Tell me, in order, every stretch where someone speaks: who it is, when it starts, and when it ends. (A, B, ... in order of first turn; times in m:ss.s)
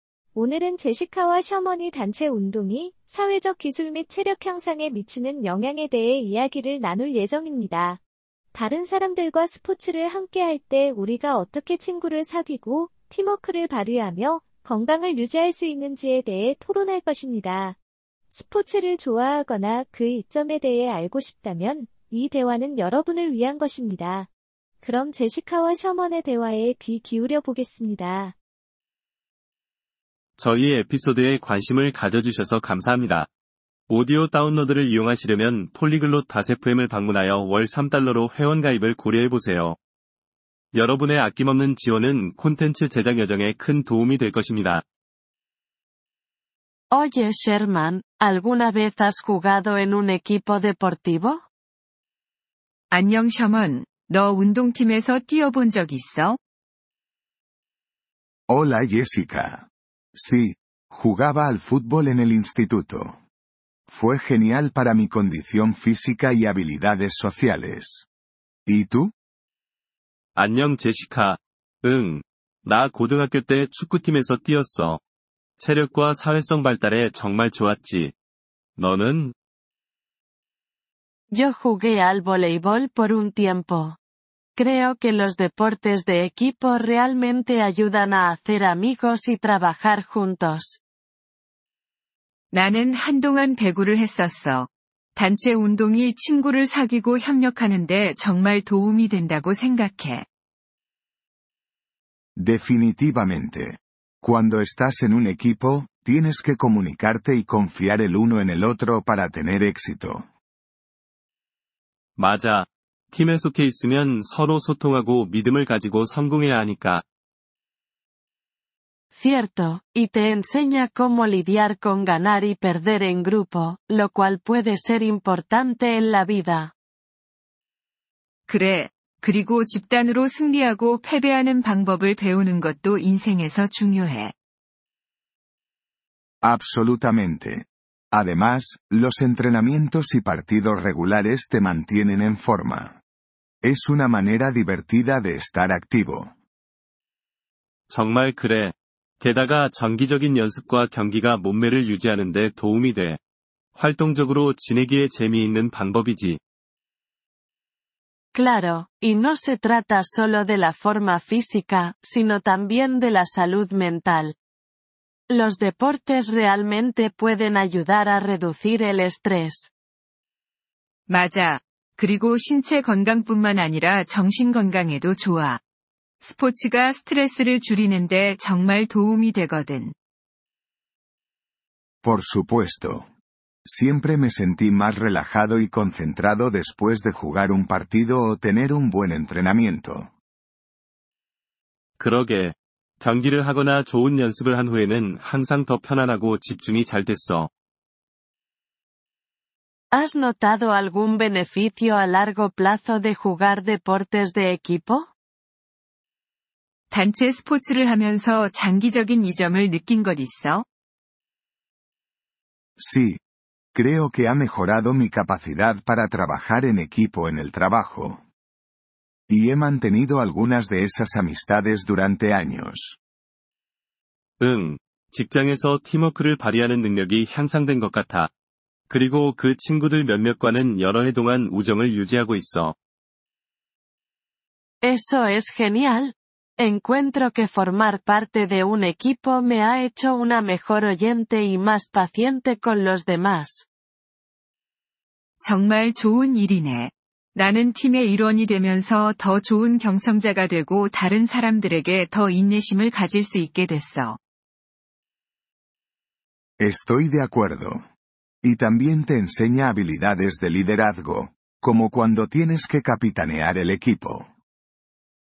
0:00.4-0:08.0 A
0:08.5-0:17.8 A
0:18.3-0:24.3 A
0:24.8-0:28.4 A
0:30.4-0:33.3 B
0:33.9-0:39.8 B
0:40.8-0:44.8 B
0:46.9-0:51.4 C
0:52.9-0:56.4 D
0:58.5-1:03.2 E
1:03.9-1:08.1 E
1:08.7-1:09.1 E
1:10.4-1:15.0 B
1:15.6-1:18.1 B
1:18.8-1:19.3 B
1:21.3-1:24.0 C
1:24.6-1:30.8 C
1:32.5-1:40.2 D
1:42.4-1:50.3 E
1:52.2-1:57.0 B
1:59.1-2:06.7 C
2:08.5-2:14.3 D
2:16.4-2:23.0 E
2:23.6-2:26.3 E
2:27.9-2:33.2 B
2:33.8-2:36.4 B
2:38.3-2:44.4 C
2:45.3-2:49.7 C
2:51.1-2:55.6 D
2:56.2-2:59.9 D
3:02.0-3:03.1 E
3:03.7-3:10.1 E
3:12.0-3:17.5 B
3:19.9-3:25.1 C
3:26.9-3:30.6 D
3:32.8-3:33.2 E
3:33.7-3:38.2 E
3:39.3-3:43.0 E
3:44.4-3:48.3 B
3:48.9-3:52.8 B
3:54.8-4:03.7 C
4:05.4-4:14.2 D
4:16.6-4:17.8 E
4:18.4-4:24.3 E